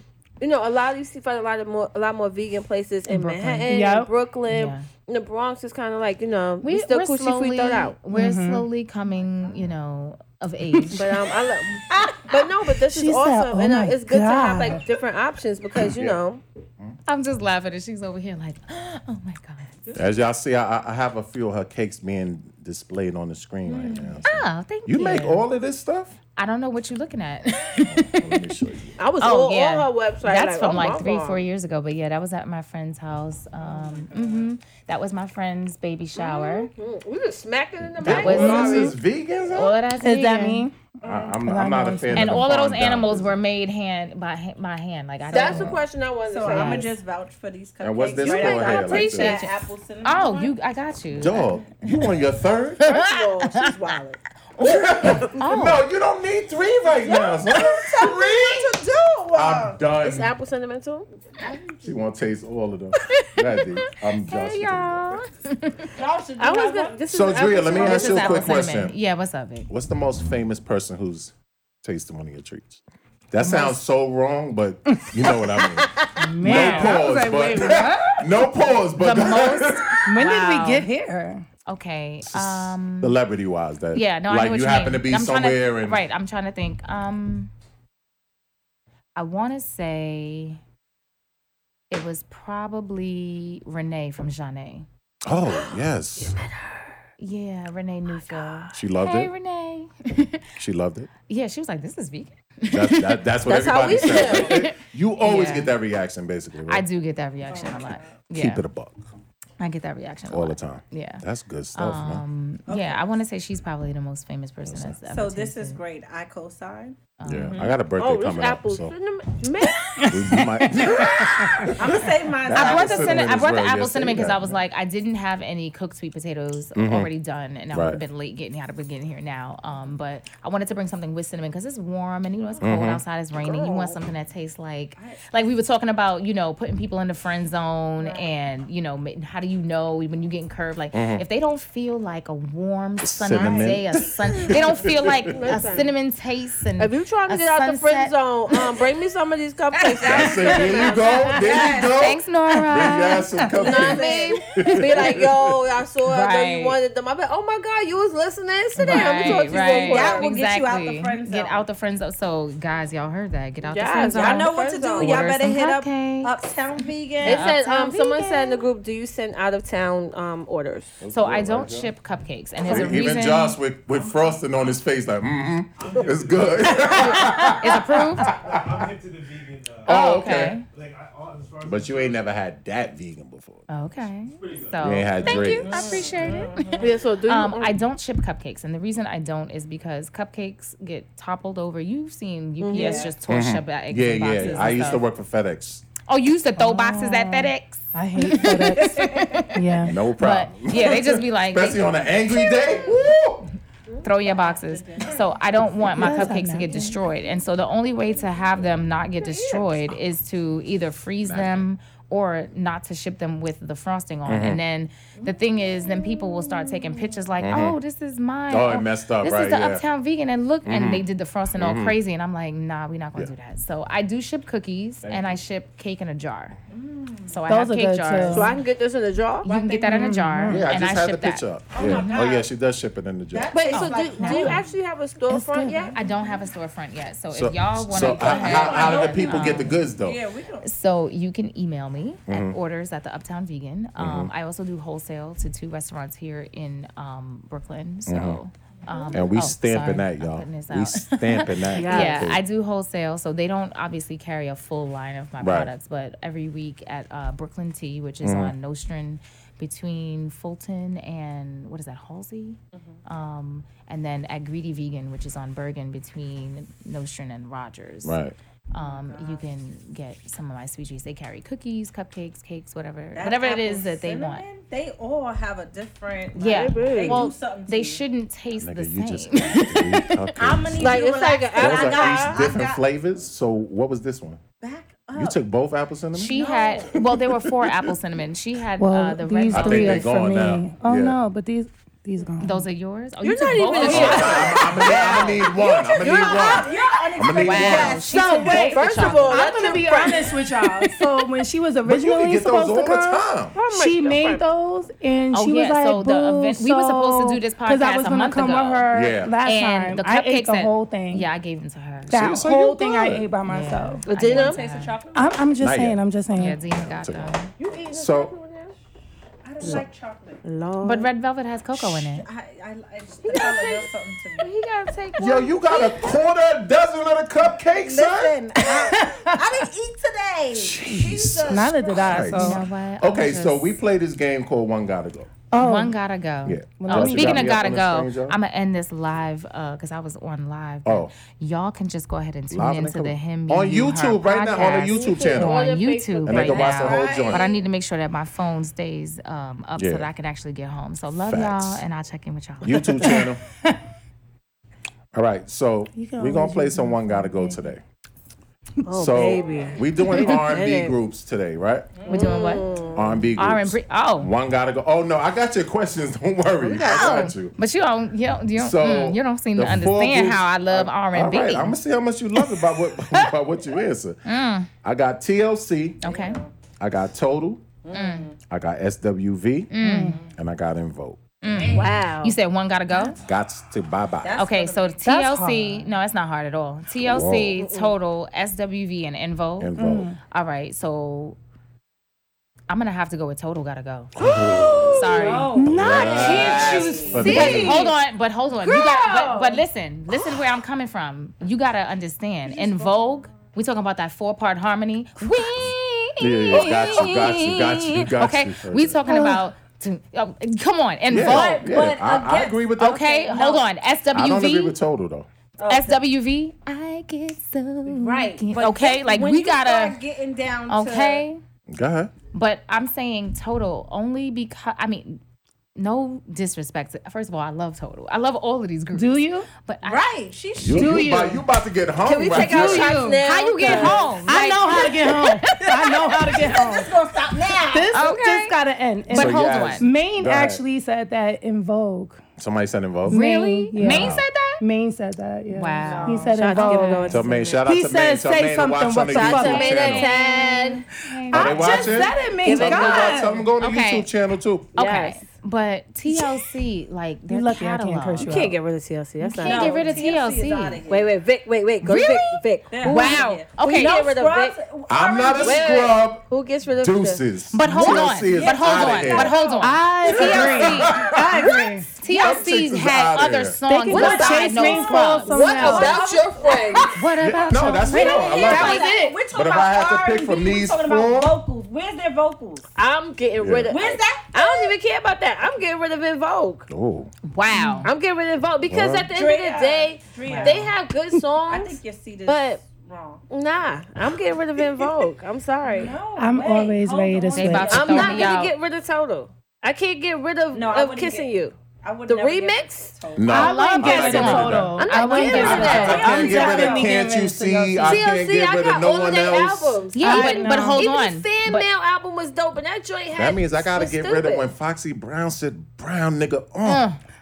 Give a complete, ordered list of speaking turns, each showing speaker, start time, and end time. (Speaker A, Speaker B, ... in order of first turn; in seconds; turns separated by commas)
Speaker A: 0.4-8.0, Speaker B: 3.1-3.7, Speaker C: 3.7-4.1, Speaker B: 4.5-4.9, Speaker B: 6.6-11.1, Speaker C: 8.1-8.7, Speaker D: 9.1-9.6, Speaker A: 10.9-16.4, Speaker C: 12.8-14.8, Speaker E: 15.8-16.2, Speaker B: 17.1-19.7, Speaker E: 19.9-26.2, Speaker D: 23.7-24.2, Speaker B: 24.2-25.5, Speaker B: 26.4-28.4, Speaker E: 27.8-29.0, Speaker A: 29.0-31.4, Speaker B: 29.2-36.7, Speaker D: 33.6-34.5, Speaker A: 36.2-39.0, Speaker E: 38.0-39.8, Speaker B: 38.0-39.0, Speaker B: 39.5-40.7, Speaker C: 40.0-42.4, Speaker D: 41.0-41.4, Speaker E: 41.0-43.3, Speaker B: 42.1-45.8, Speaker A: 45.3-46.9, Speaker D: 46.2-50.5, Speaker B: 46.4-46.9, Speaker E: 47.8-49.4, Speaker B: 48.3-52.0, Speaker E: 51.1-52.9, Speaker B: 52.8-53.7, Speaker A: 52.9-54.2, Speaker B: 54.5-55.8, Speaker E: 54.6-58.8, Speaker D: 57.0-59.8, Speaker E: 59.3-60.3, Speaker A: 60.0-61.1, Speaker D: 61.4-61.8, Speaker E: 61.8-65.2, Speaker B: 63.2-63.6, Speaker B: 64.2-65.9, Speaker D: 65.9-67.0, Speaker A: 66.4-68.6, Speaker E: 67.1-69.0, Speaker B: 67.7-69.7, Speaker E: 69.7-80.0, Speaker B: 73.4-73.8, Speaker C: 76.2-78.4, Speaker B: 76.4-77.0, Speaker B: 79.0-80.9, Speaker C: 80.0-81.5, Speaker B: 81.7-83.2, Speaker E: 82.3-86.0, Speaker B: 83.9-87.5, Speaker B: 89.2-90.6, Speaker B: 91.9-94.9, Speaker E: 95.2-96.4, Speaker A: 96.2-96.9, Speaker B: 97.2-100.5, Speaker E: 98.7-99.3, Speaker E: 100.6-101.1, Speaker B: 101.3-103.3, Speaker E: 102.7-106.8, Speaker A: 103.5-104.6, Speaker B: 104.3-105.7, Speaker B: 106.7-108.6, Speaker D: 107.4-108.2, Speaker E: 108.3-109.1, Speaker B: 109.6-115.8, Speaker E: 110.3-112.2, Speaker D: 112.7-113.1, Speaker E: 114.7-115.0, Speaker D: 115.0-117.8, Speaker B: 117.2-117.7, Speaker E: 117.2-118.9, Speaker A: 118.0-119.8, Speaker C: 120.0-121.7, Speaker E: 120.1-124.6, Speaker D: 121.8-123.3, Speaker B: 122.5-148.2, Speaker E: 126.7-127.1, Speaker E: 127.7-128.0, Speaker E: 132.6-133.0, Speaker A: 133.4-134.0, Speaker D: 134.9-135.3, Speaker D: 138.0-138.3, Speaker E: 140.9-141.2, Speaker E: 143.0-145.3, Speaker A: 145.2-145.9, Speaker A: 146.8-151.5, Speaker E: 150.1-155.5, Speaker D: 150.2-152.0, Speaker B: 151.9-153.2, Speaker D: 153.5-154.4, Speaker A: 153.5-160.3, Speaker B: 156.1-156.8, Speaker B: 158.8-168.7, Speaker D: 158.8-161.7, Speaker A: 163.7-165.2, Speaker D: 164.1-167.5, Speaker A: 167.2-170.9, Speaker E: 171.0-171.9, Speaker B: 171.1-173.6, Speaker E: 172.6-178.9, Speaker F: 173.9-174.6, Speaker F: 175.8-177.0, Speaker B: 176.8-178.3, Speaker F: 178.2-182.3, Speaker E: 179.8-180.6, Speaker B: 179.8-180.6, Speaker E: 181.6-183.7, Speaker B: 183.7-195.0, Speaker F: 184.2-185.5, Speaker E: 184.8-185.8, Speaker D: 185.3-187.0, Speaker A: 186.2-187.8, Speaker A: 192.6-193.1, Speaker D: 192.7-193.1, Speaker E: 193.3-195.8, Speaker B: 196.1-201.9, Speaker C: 196.6-200.0, Speaker D: 199.0-199.5, Speaker E: 199.8-203.5, Speaker D: 202.5-203.0, Speaker D: 203.9-206.2, Speaker B: 204.0-226.6, Speaker C: 205.9-207.0, Speaker E: 211.2-211.7, Speaker E: 214.2-214.6, Speaker E: 217.4-217.8, Speaker E: 218.5-219.8, Speaker E: 220.6-222.0, Speaker E: 225.0-225.4, Speaker D: 226.7-227.4, Speaker B: 227.3-228.5, Speaker C: 227.5-228.5, Speaker A: 228.3-229.5, Speaker B: 229.4-232.3, Speaker D: 229.4-230.1, Speaker C: 229.9-230.7, Speaker E: 230.5-233.7, Speaker D: 231.7-232.5, Speaker D: 233.3-234.7, Speaker A: 233.5-235.9, Speaker B: 233.7-234.6, Speaker C: 235.3-235.9, Speaker D: 235.9-236.5, Speaker B: 235.9-239.8, Speaker E: 237.3-240.2, Speaker D: 237.9-240.7, Speaker B: 240.6-268.2, Speaker E: 242.3-242.6, Speaker E: 244.0-244.3, Speaker E: 248.1-248.4, Speaker D: 248.9-249.2, Speaker E: 249.1-252.4, Speaker A: 251.7-252.2, Speaker E: 255.4-255.7, Speaker E: 258.2-258.5, Speaker E: 268.0-268.4, Speaker B: 268.7-274.4, Speaker D: 268.7-269.4, Speaker D: 273.1-278.0, Speaker B: 276.3-280.2, Speaker A: 276.4-277.3, Speaker E: 278.6-284.4, Speaker D: 280.3-282.8, Speaker A: 280.8-282.4, Speaker D: 284.6-285.4, Speaker E: 285.1-286.4, Speaker B: 286.1-290.1, Speaker D: 286.3-286.9, Speaker E: 286.9-287.9, Speaker C: 288.8-292.7, Speaker E: 289.5-291.2, Speaker B: 292.4-295.4, Speaker A: 293.2-300.4, Speaker D: 293.8-299.2, Speaker E: 293.9-298.0, Speaker B: 297.4-299.5, Speaker C: 299.3-311.3, Speaker E: 301.8-303.5, Speaker A: 303.5-304.4, Speaker B: 305.3-308.8, Speaker E: 308.9-309.4, Speaker B: 309.4-312.1, Speaker E: 312.1-313.3, Speaker C: 312.1-314.1, Speaker B: 313.4-315.0, Speaker A: 314.1-314.6, Speaker D: 314.2-315.4, Speaker C: 315.1-316.6, Speaker E: 315.6-316.0, Speaker B: 316.4-317.5, Speaker E: 316.7-317.4, Speaker D: 317.6-317.9, Speaker A: 317.6-318.7, Speaker E: 317.9-318.3, Speaker D: 319.4-320.4, Speaker A: 320.4-321.1, Speaker B: 320.8-322.3, Speaker D: 322.1-324.5, Speaker A: 323.2-323.9, Speaker B: 324.4-325.5, Speaker A: 324.4-325.4, Speaker E: 325.2-328.4, Speaker D: 327.8-332.3, Speaker C: 328.9-329.3, Speaker E: 330.5-335.3, Speaker C: 331.5-332.6, Speaker B: 332.2-333.8, Speaker C: 335.5-336.0, Speaker B: 335.5-353.2, Speaker E: 336.4-338.4, Speaker C: 336.8-337.6, Speaker E: 340.8-341.1, Speaker E: 342.5-345.7, Speaker A: 344.7-347.3, Speaker E: 346.2-347.5, Speaker D: 346.6-347.6, Speaker E: 349.8-350.1, Speaker E: 351.2-351.8, Speaker E: 352.6-353.4, Speaker E: 355.1-357.8, Speaker C: 355.9-357.7, Speaker A: 358.9-360.9, Speaker E: 358.9-361.9, Speaker D: 359.2-359.9, Speaker D: 361.9-362.9, Speaker B: 362.1-362.6, Speaker A: 362.1-363.1, Speaker E: 362.9-367.5, Speaker B: 363.4-364.3, Speaker A: 366.7-367.2, Speaker B: 366.8-371.8, Speaker E: 368.5-374.2, Speaker B: 374.2-374.7, Speaker E: 374.8-376.0, Speaker D: 376.0-376.5, Speaker B: 376.0-376.4, Speaker E: 376.8-377.7, Speaker D: 377.8-378.4, Speaker B: 377.9-378.3, Speaker E: 378.5-379.7, Speaker B: 379.7-380.2, Speaker C: 379.8-380.2, Speaker E: 380.3-381.4, Speaker B: 381.4-383.2, Speaker D: 381.4-382.0, Speaker A: 381.7-382.4, Speaker E: 383.2-384.4, Speaker D: 384.2-385.0, Speaker B: 384.4-391.4, Speaker C: 385.0-385.9, Speaker E: 387.0-387.6, Speaker A: 387.6-387.9, Speaker E: 389.6-390.1, Speaker C: 389.8-390.2, Speaker B: 392.7-394.1, Speaker E: 394.1-397.9, Speaker D: 394.7-397.6, Speaker B: 394.9-395.6, Speaker C: 395.5-397.9, Speaker B: 396.1-411.6, Speaker D: 398.6-399.6, Speaker D: 402.5-403.2, Speaker E: 406.2-409.1, Speaker C: 406.6-407.1, Speaker C: 409.1-409.4, Speaker E: 411.1-413.2, Speaker D: 411.1-413.6, Speaker B: 412.8-414.8, Speaker E: 414.1-415.3, Speaker D: 415.6-416.0, Speaker B: 415.7-420.0, Speaker D: 417.9-421.2, Speaker B: 420.7-421.4, Speaker E: 421.7-422.1, Speaker B: 422.3-425.2, Speaker B: 425.7-430.1, Speaker C: 428.9-429.5, Speaker D: 429.8-431.2, Speaker E: 430.6-433.0, Speaker C: 430.6-431.4, Speaker A: 432.0-434.2, Speaker C: 432.3-437.0, Speaker B: 433.0-435.7, Speaker D: 435.5-437.9, Speaker C: 437.5-442.2, Speaker B: 437.9-438.5, Speaker B: 439.1-439.9, Speaker E: 439.1-440.6, Speaker E: 442.4-443.2, Speaker C: 443.1-449.8, Speaker B: 443.1-444.6, Speaker E: 443.8-444.2, Speaker B: 445.5-447.2, Speaker D: 445.8-446.4, Speaker A: 446.2-447.6, Speaker E: 447.1-450.1, Speaker A: 449.1-450.8, Speaker B: 449.5-452.0, Speaker C: 451.3-453.4, Speaker E: 451.3-454.7, Speaker D: 451.7-453.3, Speaker A: 452.4-453.2, Speaker B: 453.6-454.1, Speaker B: 454.7-458.4, Speaker A: 454.8-455.2, Speaker C: 457.3-458.6, Speaker A: 458.2-459.9, Speaker B: 459.2-460.8, Speaker D: 459.4-461.1, Speaker A: 460.9-464.6, Speaker B: 461.8-464.1, Speaker D: 462.7-465.9, Speaker E: 464.9-466.2, Speaker A: 465.4-467.2, Speaker E: 466.8-469.5, Speaker B: 467.5-471.0, Speaker D: 467.9-471.0, Speaker C: 469.6-471.9, Speaker E: 470.2-471.4, Speaker B: 472.0-475.8, Speaker E: 472.1-473.6, Speaker C: 473.8-476.1, Speaker A: 473.8-477.0, Speaker D: 474.0-477.0, Speaker B: 476.9-478.9, Speaker E: 477.2-481.4, Speaker D: 477.8-482.7, Speaker C: 478.3-479.2, Speaker A: 482.8-486.7, Speaker E: 483.4-483.7, Speaker D: 483.7-484.8, Speaker E: 486.7-487.1, Speaker B: 487.3-487.9, Speaker C: 487.5-487.9, Speaker A: 487.8-492.6, Speaker E: 488.6-489.1, Speaker D: 489.1-490.7, Speaker C: 490.2-490.7, Speaker D: 491.4-493.2, Speaker A: 493.3-496.0, Speaker D: 495.7-498.4, Speaker C: 496.1-498.1, Speaker B: 497.3-498.5, Speaker A: 497.7-501.6, Speaker D: 500.5-504.5, Speaker A: 502.1-502.9, Speaker E: 503.1-504.8, Speaker C: 503.3-508.0, Speaker B: 503.3-506.1, Speaker A: 504.8-506.2, Speaker D: 505.3-507.0, Speaker E: 505.4-509.8, Speaker A: 507.8-514.5, Speaker B: 509.9-511.7, Speaker C: 510.0-510.8, Speaker E: 513.1-516.9, Speaker B: 516.6-517.0